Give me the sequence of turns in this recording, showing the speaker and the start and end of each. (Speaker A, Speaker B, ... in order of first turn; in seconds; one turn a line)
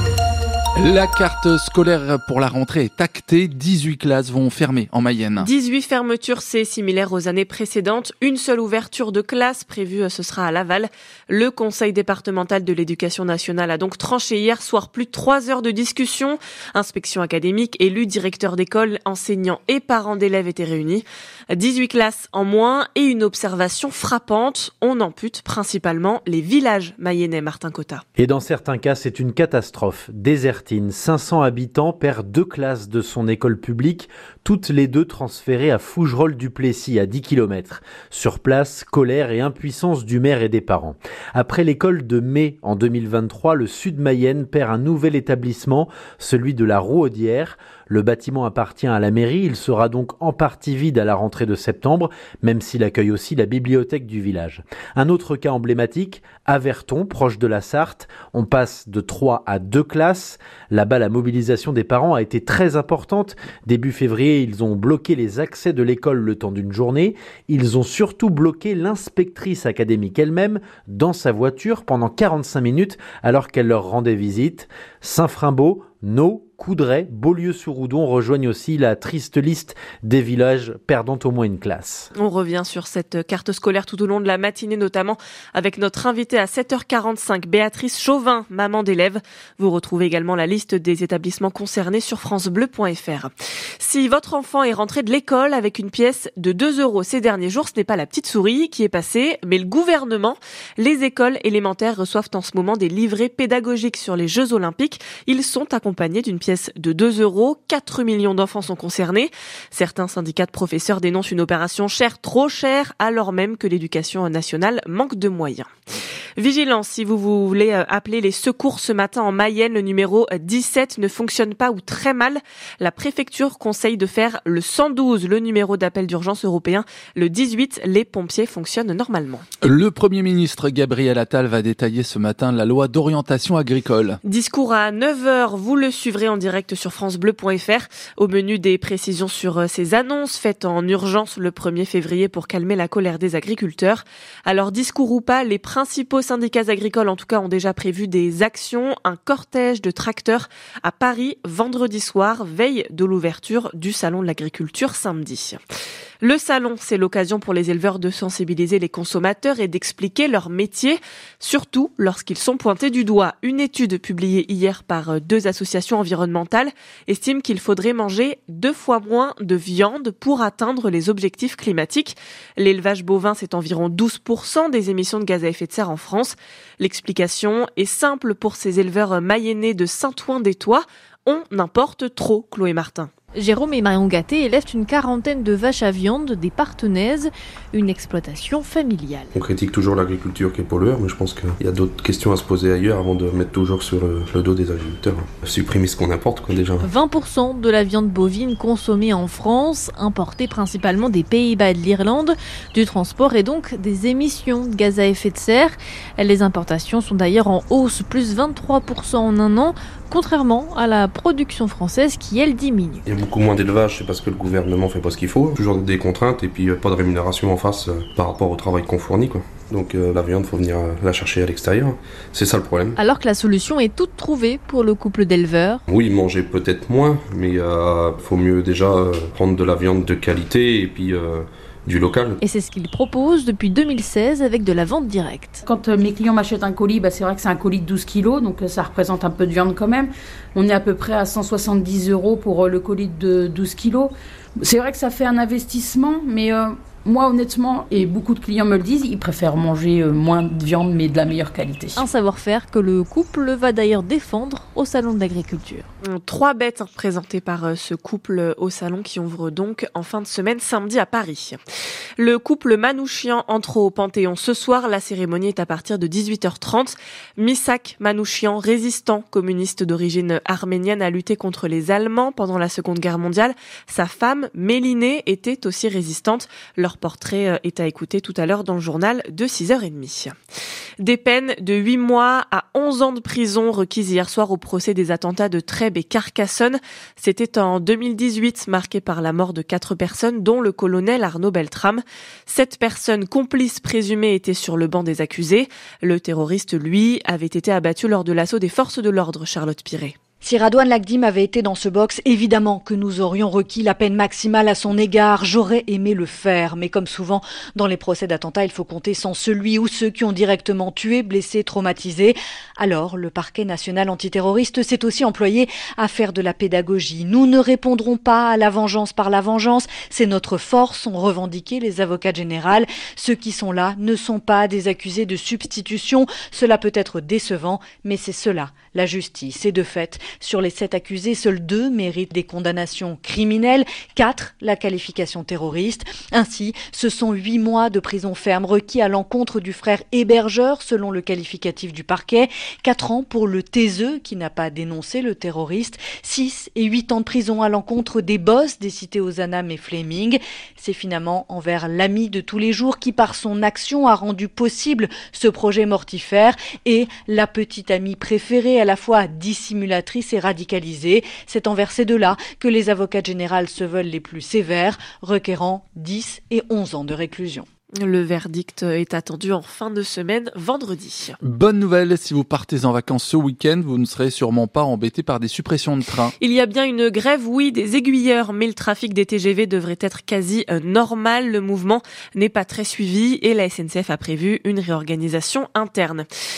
Speaker A: 0.8-5.5
Speaker B: 5.4-28.0
Speaker C: 28.2-82.1
Speaker B: 82.1-115.7
Speaker B: 116.4-129.4
Speaker A: 129.6-134.2
Speaker B: 134.2-155.6
Speaker B: 156.2-183.1
Speaker D: 183.3-189.3
Speaker E: 189.3-196.9
Speaker D: 196.8-213.0
Speaker E: 213.1-223.0
Speaker D: 223.0-225.8
Speaker E: 225.9-232.4
Speaker D: 232.4-235.6
Speaker F: 235.7-252.0
Speaker D: 252.0-255.8
Speaker B: 256.0-261.6
Speaker B: 262.2-280.3
Speaker B: 281.0-300.1
Speaker G: 300.4-367.6
Speaker B: 368.0-371.4
Speaker A: 371.4-376.3
Speaker B: 376.4-386.3